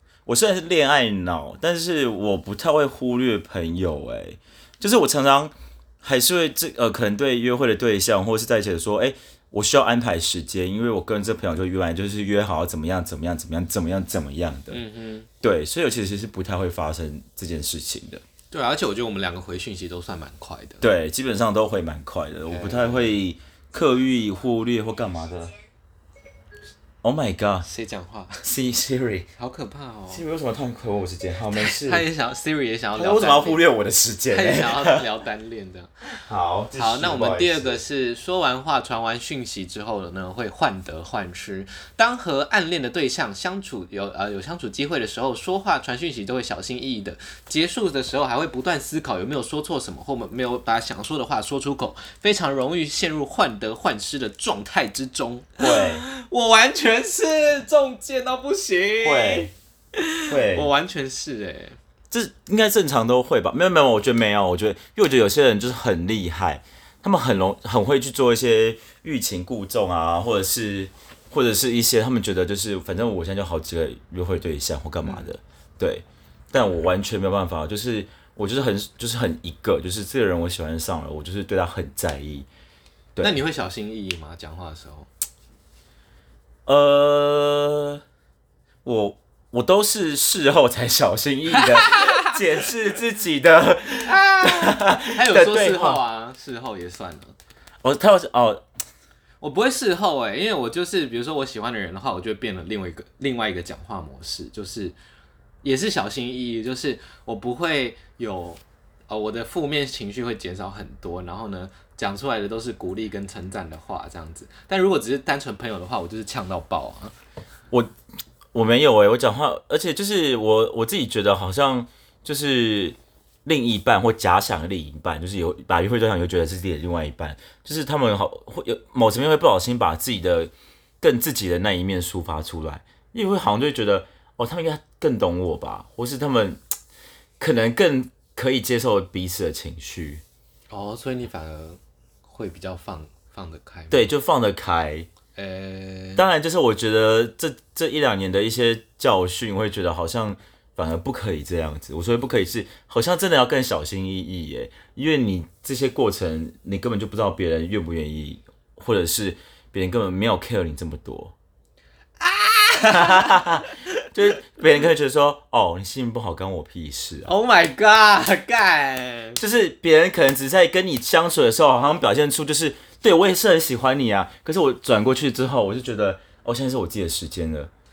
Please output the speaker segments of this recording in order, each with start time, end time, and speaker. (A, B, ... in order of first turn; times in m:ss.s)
0:00.2-0:14.8 A
0:14.7-0:15.3 B
0:15.4-0:18.2 A
0:18.5-0:20.8 B
0:20.8-0:25.5 A
0:22.5-0:23.2 B
0:27.0-0:27.6 A
0:27.6-0:28.5 B
0:28.4-0:29.3 A
0:29.4-0:30.2 B
0:30.1-0:32.0 A
0:31.5-0:33.6 B
0:32.9-0:35.0 A
0:34.3-0:35.9 B
0:36.2-0:37.8 A
0:36.8-1:01.8 B
0:55.6-0:56.0 A
0:59.0-0:59.5 A
1:00.3-1:00.7 A
1:02.1-1:22.5 A
1:15.0-1:15.3 B
1:23.2-1:25.1 B
1:26.6-1:28.0 A
1:28.8-1:36.0 A
1:31.8-1:32.4 B
1:34.0-1:37.3 B
1:37.8-1:38.6 A
1:39.4-1:44.9 B
1:45.6-1:57.1 B
1:58.5-2:16.6 A
2:17.4-2:20.2 A
2:20.7-2:24.1 B
2:23.9-2:25.1 A
2:25.3-2:26.2 B
2:26.2-2:41.3 A
2:42.2-2:43.8 B
2:42.9-2:47.3 A
2:47.2-2:49.4 B
2:49.4-2:57.7 A